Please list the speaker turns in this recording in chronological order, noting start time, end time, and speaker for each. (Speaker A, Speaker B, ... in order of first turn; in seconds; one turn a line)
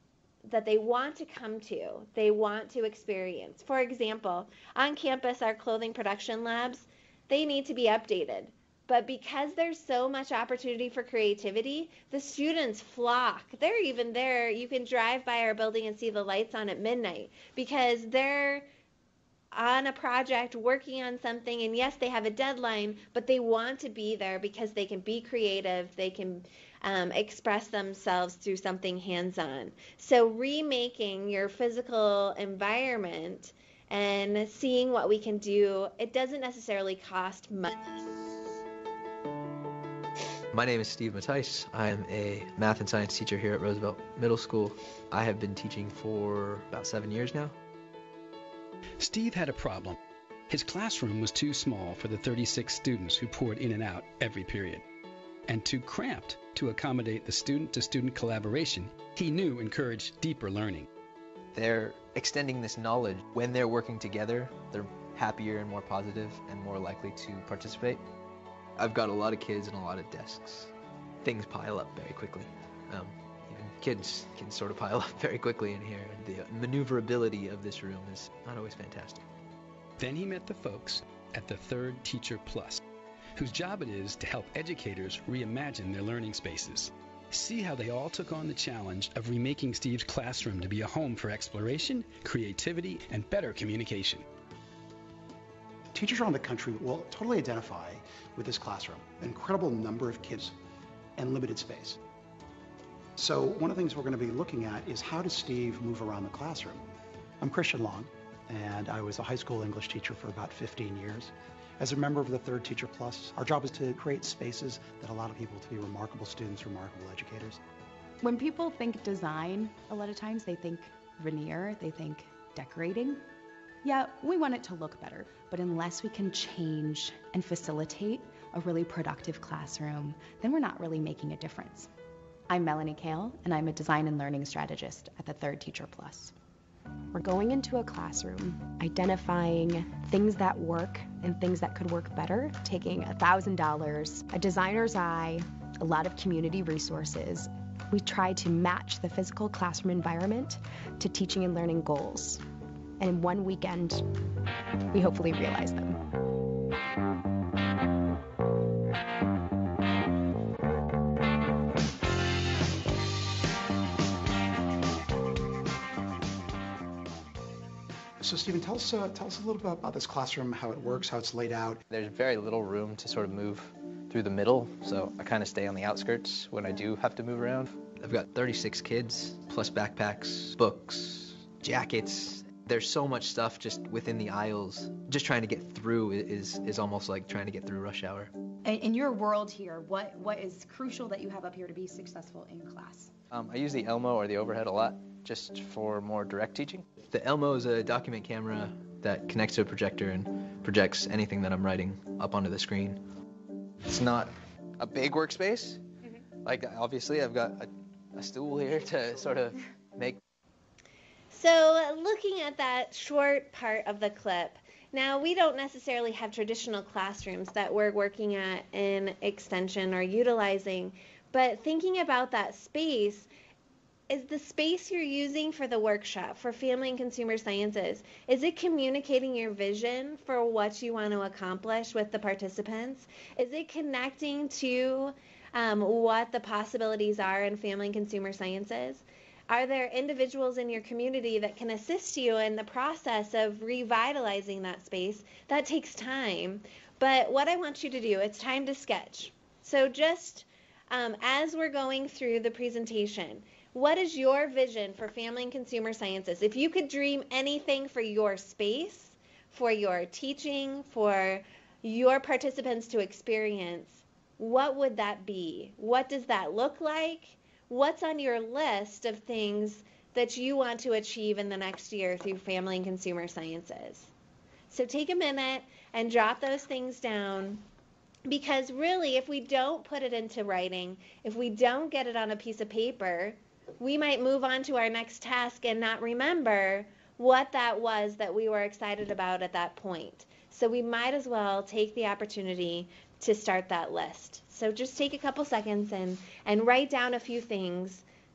Speaker A: 0.5-18.7
Speaker A: 19.5-37.8
Speaker B: 40.5-47.5
Speaker C: 49.0-50.0
Speaker C: 50.5-54.8
Speaker C: 55.5-60.9
Speaker B: 61.5-68.0
Speaker B: 68.8-70.7
Speaker B: 71.2-79.2
Speaker C: 80.0-82.8
Speaker C: 83.3-94.2
Speaker D: 95.9-100.5
Speaker D: 101.2-102.0
Speaker D: 103.2-106.8
Speaker D: 107.4-117.6
Speaker E: 118.2-123.2
Speaker E: 123.8-131.9
Speaker E: 132.5-136.3
Speaker E: 137.1-152.4
Speaker E: 153.0-154.0
Speaker E: 154.9-156.0
Speaker D: 168.2-171.8
Speaker B: 171.9-188.3
Speaker E: 188.6-193.1
Speaker B: 193.3-203.0
Speaker B: 203.8-205.8
Speaker B: 206.4-210.2
Speaker A: 211.3-223.3
Speaker A: 224.1-274.1
Speaker A: 274.7-277.6
Speaker A: 278.3-298.0